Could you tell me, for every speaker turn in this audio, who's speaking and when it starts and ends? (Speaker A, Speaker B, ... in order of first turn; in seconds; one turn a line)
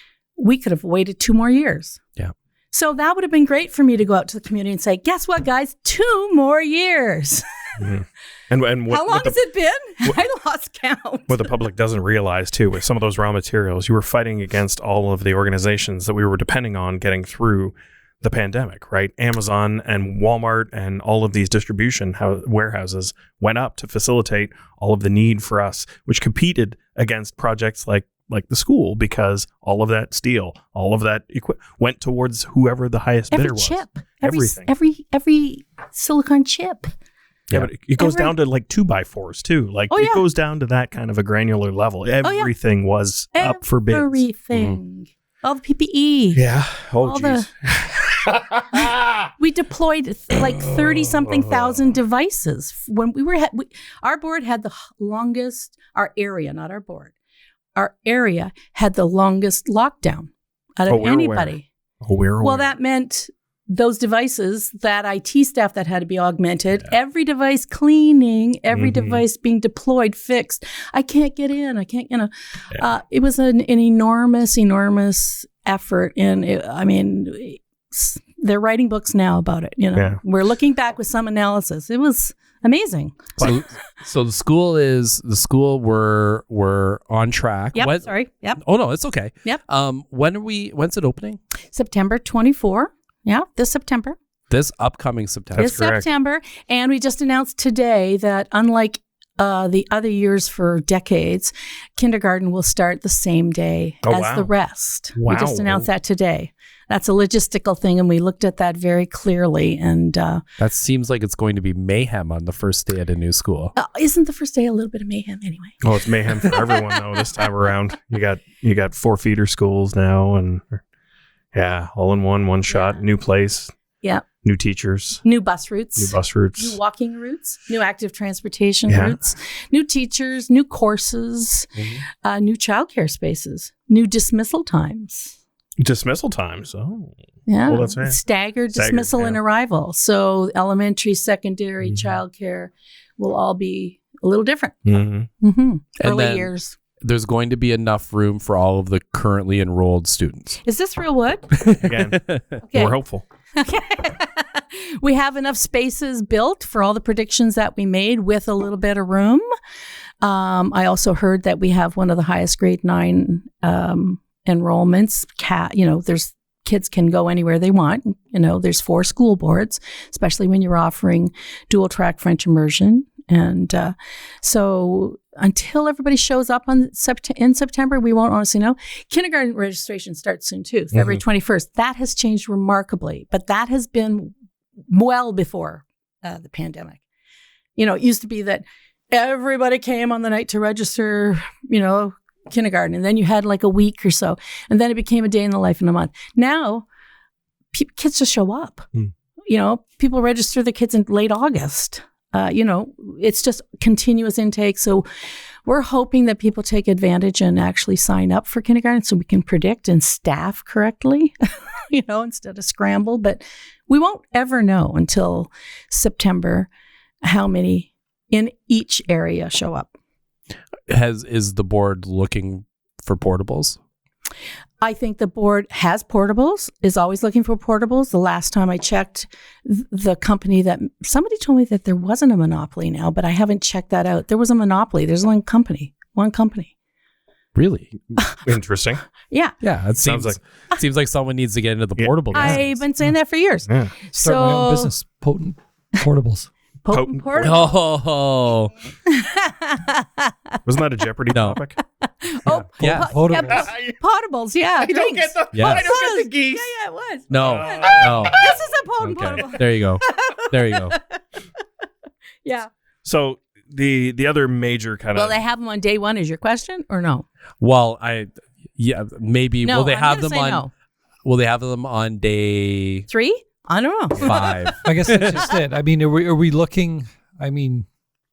Speaker A: 0.4-2.0
Speaker A: 2.7-7.4
Speaker B: 7.8-9.4
Speaker A: 8.9-11.4
Speaker B: 11.3-34.7
Speaker A: 33.3-36.9
Speaker B: 37.5-44.2
Speaker A: 38.0-38.3
Speaker A: 39.9-40.2
Speaker A: 42.2-42.5
Speaker A: 43.3-46.4
Speaker B: 46.3-49.0
Speaker A: 47.0-47.5
Speaker A: 49.4-57.1
Speaker A: 57.7-61.7
Speaker B: 60.9-62.7
Speaker A: 62.4-83.6
Speaker B: 68.7-69.2
Speaker B: 79.9-80.2
Speaker C: 83.4-91.4
Speaker A: 87.7-88.6
Speaker A: 91.7-94.2
Speaker C: 94.5-95.9
Speaker B: 95.5-96.1
Speaker A: 95.6-110.4
Speaker B: 104.0-104.5
Speaker B: 105.1-105.9
Speaker C: 110.6-113.7
Speaker A: 113.8-115.8
Speaker B: 115.8-120.8
Speaker B: 121.5-123.7
Speaker A: 122.7-123.0
Speaker B: 124.4-125.2
Speaker A: 125.2-131.7
Speaker B: 126.0-126.8
Speaker B: 128.9-129.2
Speaker A: 132.2-135.3
Speaker B: 135.8-138.2
Speaker A: 137.5-144.8
Speaker B: 138.7-139.4
Speaker B: 144.8-145.3
Speaker A: 145.4-146.8
Speaker C: 146.0-146.5
Speaker C: 147.0-150.6
Speaker A: 150.6-151.5
Speaker C: 151.6-152.6
Speaker B: 151.7-152.2
Speaker A: 152.7-152.9
Speaker B: 152.7-153.2
Speaker A: 153.5-159.4
Speaker A: 160.2-184.3
Speaker B: 180.9-181.2
Speaker A: 184.9-187.0
Speaker A: 187.8-196.8
Speaker A: 197.7-198.9
Speaker A: 199.5-205.1
Speaker A: 205.6-216.7
Speaker A: 217.2-219.9
Speaker C: 220.9-223.8
Speaker A: 224.8-236.7
Speaker C: 237.5-238.2
Speaker B: 238.4-239.0
Speaker C: 239.6-242.8
Speaker B: 240.0-240.4
Speaker B: 242.0-242.6
Speaker A: 242.3-244.9
Speaker B: 243.7-243.9
Speaker D: 244.2-246.5
Speaker A: 246.8-247.7
Speaker B: 246.9-247.6
Speaker C: 247.4-248.7
Speaker A: 249.0-250.3
Speaker B: 250.6-251.8
Speaker C: 251.3-251.6
Speaker A: 252.0-261.2
Speaker C: 252.5-253.1
Speaker D: 252.8-253.7
Speaker B: 253.4-253.9
Speaker B: 254.8-256.7
Speaker C: 255.5-255.9
Speaker C: 257.3-258.4
Speaker B: 257.3-258.6
Speaker C: 259.0-261.0
Speaker A: 262.4-262.7
Speaker B: 263.0-265.4
Speaker A: 265.1-267.2
Speaker C: 267.6-270.6
Speaker A: 269.6-270.7
Speaker C: 271.2-273.1
Speaker A: 273.1-274.7
Speaker C: 274.1-275.5
Speaker D: 274.8-277.9